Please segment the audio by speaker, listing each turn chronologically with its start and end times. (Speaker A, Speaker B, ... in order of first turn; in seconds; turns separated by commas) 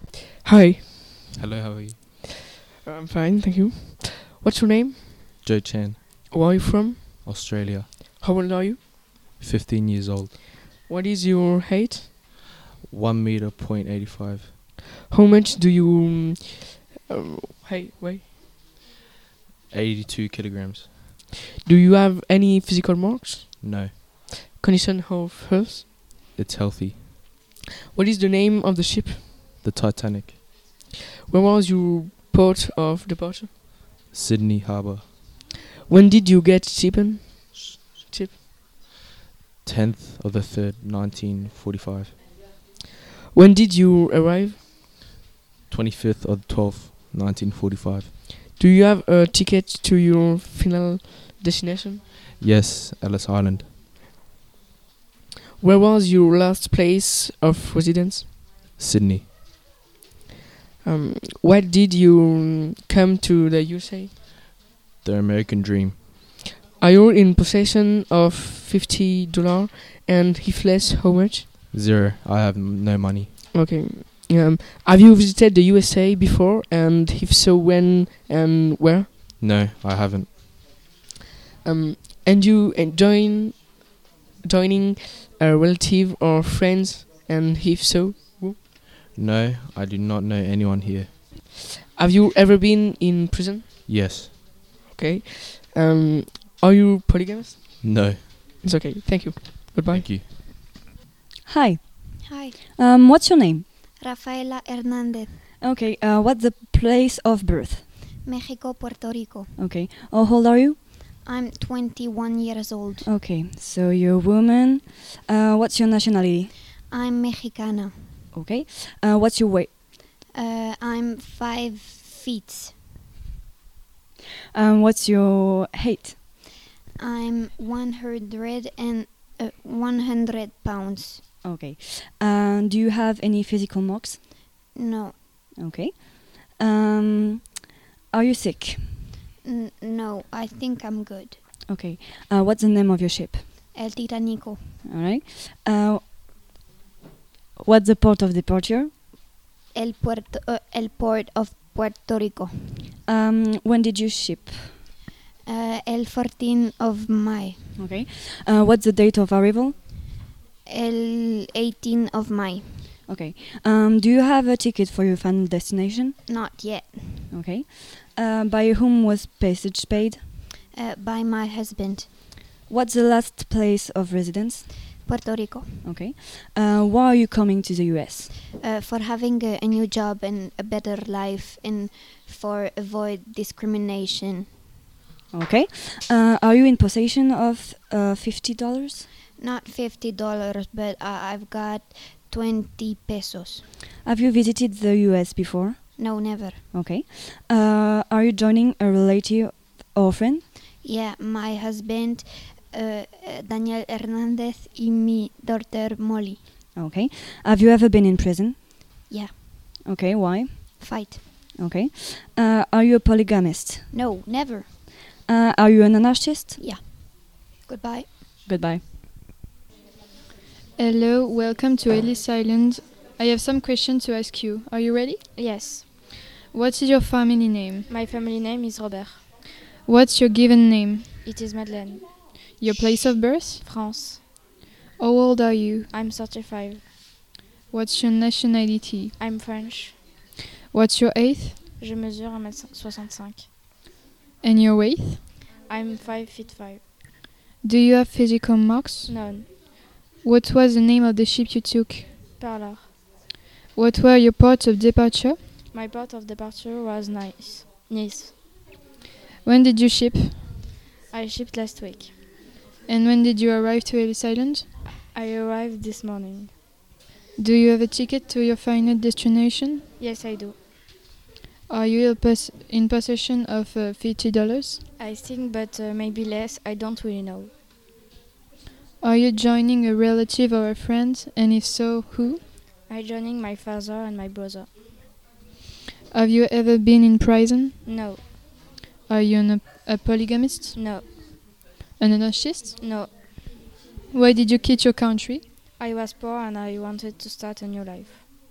Speaker A: 0.4-0.8, Speaker B: 1.4-2.0, Speaker A: 2.9-5.0, Speaker B: 5.4-6.0, Speaker A: 6.3-7.1, Speaker B: 7.2-7.9, Speaker A: 8.2-8.8, Speaker B: 9.4-10.3, Speaker A: 10.9-12.1, Speaker B: 12.8-14.5, Speaker A: 15.1-18.2, Speaker B: 19.7-20.9, Speaker A: 21.6-23.4, Speaker B: 23.6-23.9, Speaker A: 24.6-25.9, Speaker B: 26.3-27.0, Speaker A: 27.9-29.2, Speaker B: 29.6-30.4, Speaker A: 31.3-33.5, Speaker B: 34.1-35.0, Speaker A: 35.9-38.4, Speaker B: 39.6-42.1, Speaker A: 43.3-44.5, Speaker B: 45.7-48.1, Speaker A: 48.6-52.0, Speaker B: 52.4-53.7, Speaker A: 55.6-58.3, Speaker B: 58.8-59.2, Speaker A: 60.9-64.1, Speaker B: 65.0-66.0, Speaker A: 66.8-71.5, Speaker B: 71.7-73.3, Speaker A: 73.5-79.1, Speaker B: 79.4-80.3, Speaker A: 81.7-83.7, Speaker A: 84.4-88.6, Speaker B: 89.1-91.1, Speaker A: 92.0-93.6, Speaker B: 93.9-94.3, Speaker A: 94.9-97.5, Speaker B: 97.8-98.3, Speaker A: 98.6-100.0, Speaker B: 99.9-100.2, Speaker C: 101.5-102.0, Speaker D: 102.2-102.6, Speaker C: 102.8-103.7, Speaker D: 104.0-105.4, Speaker C: 105.6-107.8, Speaker D: 108.2-109.5, Speaker C: 109.6-110.8, Speaker D: 111.2-113.1, Speaker C: 113.1-116.5, Speaker D: 116.9-118.2, Speaker C: 118.3-119.7, Speaker D: 120.3-122.8, Speaker C: 124.5-126.2, Speaker D: 127.0-131.2, Speaker C: 131.4-134.2, Speaker D: 134.7-135.2, Speaker C: 135.6-138.9, Speaker D: 139.4-141.4, Speaker C: 141.7-143.4, Speaker D: 143.7-144.8, Speaker C: 144.9-146.0, Speaker C: 147.6-148.9, Speaker D: 149.7-152.9, Speaker C: 153.1-154.6, Speaker D: 155.5-157.8, Speaker C: 157.8-159.8, Speaker D: 160.7-162.9, Speaker C: 163.1-166.2, Speaker D: 166.3-167.3, Speaker C: 167.3-170.2, Speaker D: 170.7-172.1, Speaker C: 172.7-174.7, Speaker D: 175.1-175.9, Speaker C: 175.8-178.3, Speaker D: 178.6-184.5, Speaker C: 185.3-189.1, Speaker D: 189.4-193.7, Speaker C: 194.1-195.8, Speaker D: 196.0-196.6, Speaker C: 196.7-200.4, Speaker D: 200.8-206.4, Speaker C: 206.8-208.6, Speaker D: 209.1-209.4, Speaker C: 209.9-210.7, Speaker D: 210.8-211.2, Speaker C: 211.6-213.8, Speaker D: 213.9-214.7, Speaker C: 215.3-216.6, Speaker D: 216.6-218.1, Speaker C: 218.4-218.8, Speaker E: 220.8-225.2, Speaker F: 225.4-225.9, Speaker E: 226.5-227.9, Speaker F: 227.9-229.2, Speaker E: 229.8-231.2, Speaker F: 231.2-232.1, Speaker E: 232.6-233.6, Speaker F: 233.6-234.2, Speaker E: 235.0-235.9, Speaker F: 235.9-236.9, Speaker E: 237.7-239.1, Speaker F: 239.2-240.0, Speaker E: 240.7-241.6, Speaker F: 241.8-243.5, Speaker E: 244.4-245.3, Speaker F: 245.7-246.8, Speaker E: 247.6-249.1, Speaker F: 249.1-249.8, Speaker E: 250.2-252.1, Speaker F: 252.4-252.9, Speaker E: 253.8-255.4, Speaker F: 255.7-258.3, Speaker E: 259.4-260.5, Speaker F: 261.1-262.1, Speaker E: 262.9-264.8, Speaker F: 265.1-266.5, Speaker E: 267.4-269.9, Speaker F: 270.0-270.6, Speaker E: 271.7-274.8, Speaker F: 275.0-277.5, Speaker E: 279.0-282.4, Speaker F: 282.9-284.7, Speaker E: 286.1-287.8, Speaker F: 287.9-288.3, Speaker E: 289.1-290.8, Speaker F: 290.8-291.4, Speaker E: 292.0-292.8, Speaker F: 292.8-293.4, Speaker E: 294.1-295.4, Speaker F: 295.8-298.2